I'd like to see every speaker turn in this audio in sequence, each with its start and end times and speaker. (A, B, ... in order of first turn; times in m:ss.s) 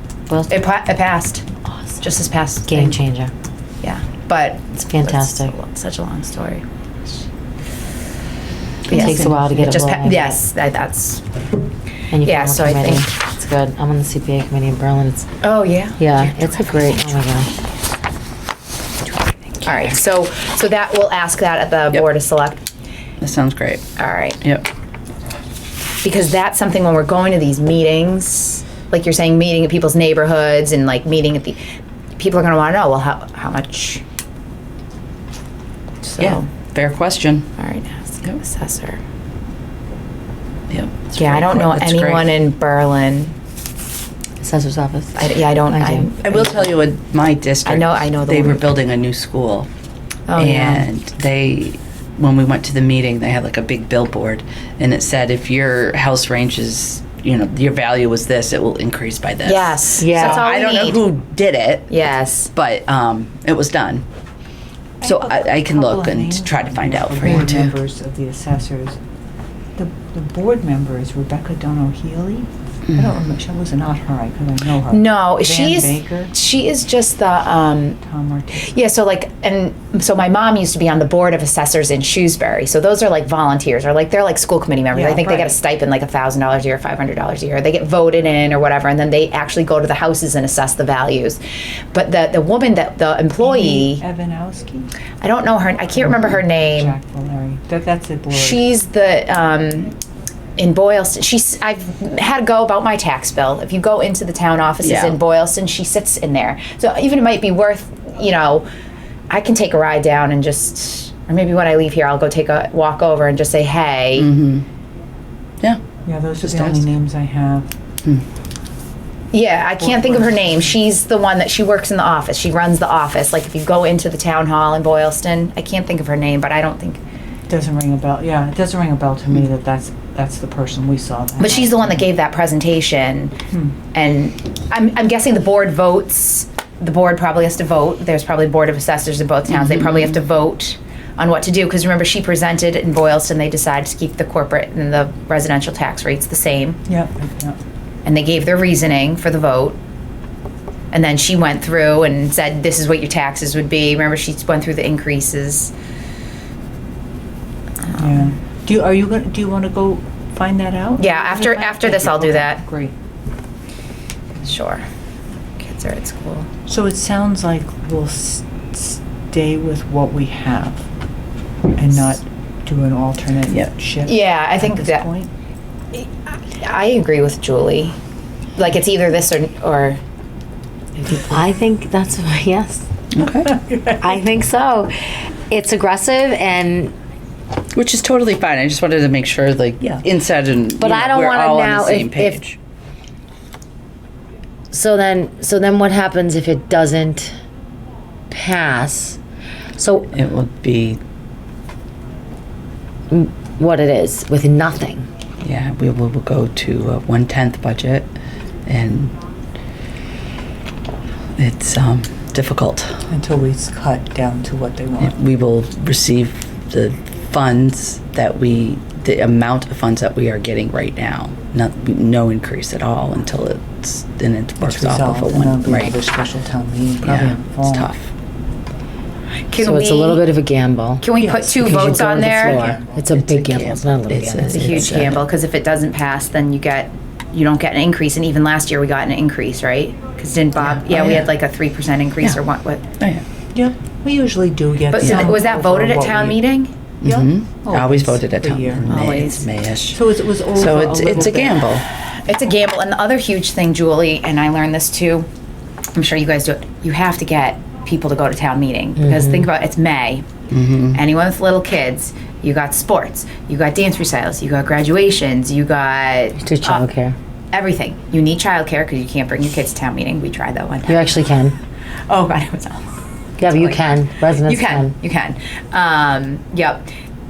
0:00.5-0:01.5 A
0:02.0-0:03.0 A
0:02.7-0:03.3 B
0:03.8-0:06.6 A
0:04.7-0:05.5 B
0:08.9-0:11.2 A
0:08.9-0:09.6 C
0:08.9-0:10.4 B
0:12.1-0:15.3 B
0:12.2-0:13.1 A
0:15.4-0:17.1 A
0:16.0-0:17.5 B
0:19.6-0:22.6 A
0:23.2-0:23.8 D
0:24.0-0:24.4 A
0:26.0-0:31.6 A
0:32.2-0:34.0 A
0:36.0-0:36.5 A
0:36.2-0:37.5 D
0:37.6-0:39.0 A
0:40.7-0:42.3 D
0:41.2-0:43.3 A
0:44.4-0:46.1 B
0:45.2-0:46.6 A
0:46.2-0:49.7 D
0:47.7-0:48.7 A
0:50.3-0:50.9 A
0:50.4-1:04.0 D
0:59.4-1:01.0 A
1:00.0-1:00.5 B
1:01.9-1:02.5 A
1:05.0-1:09.0 C
1:05.0-1:07.7 D
1:09.8-1:16.3 C
1:14.9-1:18.0 A
1:18.0-1:18.8 C
1:18.7-1:31.4 A
1:24.9-1:25.6 C
1:31.9-1:34.0 A
1:33.4-1:34.9 C
1:35.2-1:37.0 A
1:36.0-1:38.6 C
1:38.3-1:40.0 A
1:40.6-1:48.7 A
1:44.8-1:45.2 D
1:49.3-1:54.3 A
1:54.2-1:54.6 D
1:55.6-1:55.9 D
1:56.0-1:57.7 C
1:56.4-1:56.8 D
1:59.3-2:07.0 A
1:59.8-2:00.7 C
2:07.5-2:12.1 C
2:11.4-2:13.4 A
2:13.9-2:26.8 A
2:26.9-2:27.6 C
2:28.0-2:29.8 A
2:30.9-2:35.7 A
2:38.0-2:42.9 C
2:41.0-2:42.6 A
2:44.4-2:44.8 A
2:45.6-2:46.5 A
2:46.7-2:50.8 C
2:51.8-2:55.3 C
2:54.0-2:55.1 A
2:55.9-2:58.0 A
2:58.6-3:00.0 A
3:01.0-3:02.8 B
3:03.1-3:03.6 D
3:03.9-3:07.0 B
3:07.7-3:12.6 D
3:10.8-3:12.4 B
3:14.7-3:17.3 B
3:18.3-3:19.2 B
3:19.8-3:20.1 B
3:20.1-3:21.0 D
3:23.1-3:25.1 B
3:25.4-3:28.1 D
3:28.7-3:29.1 D
3:31.4-3:33.0 D
3:33.1-3:35.2 C
3:35.0-3:46.0 D
3:44.6-3:47.9 C
3:47.0-3:48.1 D
3:49.5-3:50.2 A
3:49.6-3:51.0 B
3:51.0-3:52.6 A
3:51.2-3:52.9 C
3:51.6-3:55.2 B
3:53.1-3:55.2 D
3:54.5-4:02.8 A
4:00.7-4:01.3 D
4:03.5-4:06.4 C
4:04.9-4:06.7 A
4:05.0-4:05.3 D
4:07.0-4:11.8 D
4:07.0-4:08.9 C
4:08.9-4:09.5 A
4:09.9-4:11.7 C
4:12.3-4:15.3 A
4:16.0-4:20.3 A
4:19.0-4:19.5 B
4:20.5-4:21.0 D
4:20.9-4:26.8 A
4:26.4-4:27.2 B
4:27.5-4:31.1 A
4:30.9-4:31.6 B
4:32.1-4:32.9 A
4:33.4-4:34.9 B
4:33.5-4:36.9 A